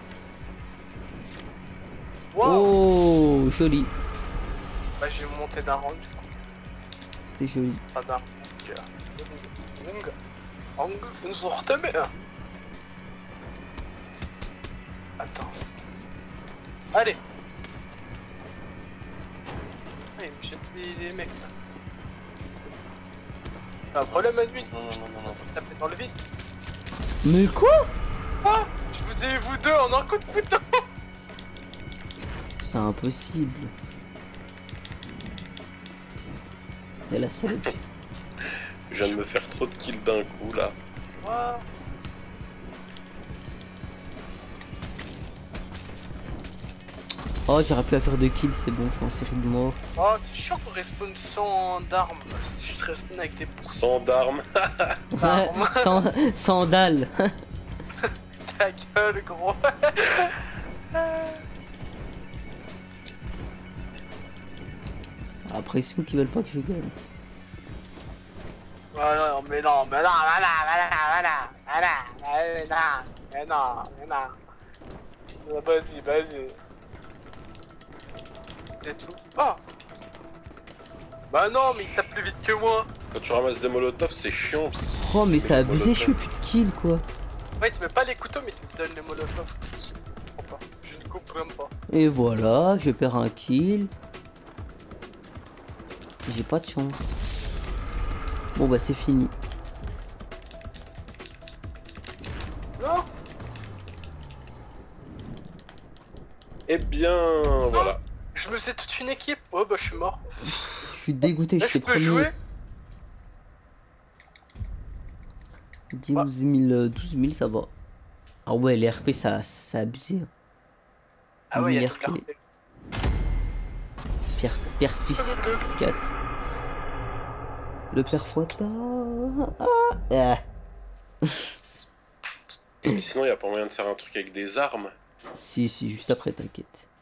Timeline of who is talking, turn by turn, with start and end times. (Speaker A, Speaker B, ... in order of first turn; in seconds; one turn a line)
Speaker A: 2.3-2.8
Speaker B: 2.4-3.9
Speaker A: 5.0-6.3
Speaker B: 7.3-7.8
Speaker A: 7.9-10.1
Speaker A: 10.8-12.1
Speaker A: 15.2-15.6
Speaker A: 16.9-17.2
Speaker A: 20.2-21.5
Speaker A: 23.9-26.3
Speaker C: 24.1-25.4
Speaker B: 27.2-27.9
Speaker A: 28.4-30.8
Speaker B: 32.6-33.7
Speaker B: 37.1-37.8
Speaker C: 38.9-40.8
Speaker A: 38.9-39.2
Speaker A: 41.2-41.6
Speaker B: 47.5-49.8
Speaker A: 50.0-53.8
Speaker C: 53.6-54.9
Speaker B: 55.1-57.1
Speaker A: 55.2-56.0
Speaker A: 58.0-61.4
Speaker B: 65.5-66.9
Speaker A: 68.9-74.4
Speaker A: 75.4-76.6
Speaker A: 78.8-79.6
Speaker A: 81.3-82.9
Speaker C: 83.1-86.3
Speaker B: 85.0-87.0
Speaker A: 87.6-91.7
Speaker B: 91.9-93.9
Speaker B: 96.2-97.1
Speaker B: 98.5-99.3
Speaker A: 102.8-103.1
Speaker C: 106.7-108.0
Speaker A: 107.7-110.5
Speaker B: 110.4-112.3
Speaker A: 111.6-112.3
Speaker B: 115.9-117.7
Speaker B: 118.5-120.3
Speaker A: 121.5-122.3
Speaker B: 121.5-122.2
Speaker B: 124.4-126.2
Speaker A: 125.2-125.7
Speaker B: 127.9-130.4
Speaker A: 128.1-128.7
Speaker A: 131.6-131.8
Speaker C: 132.9-134.9
Speaker B: 135.4-136.8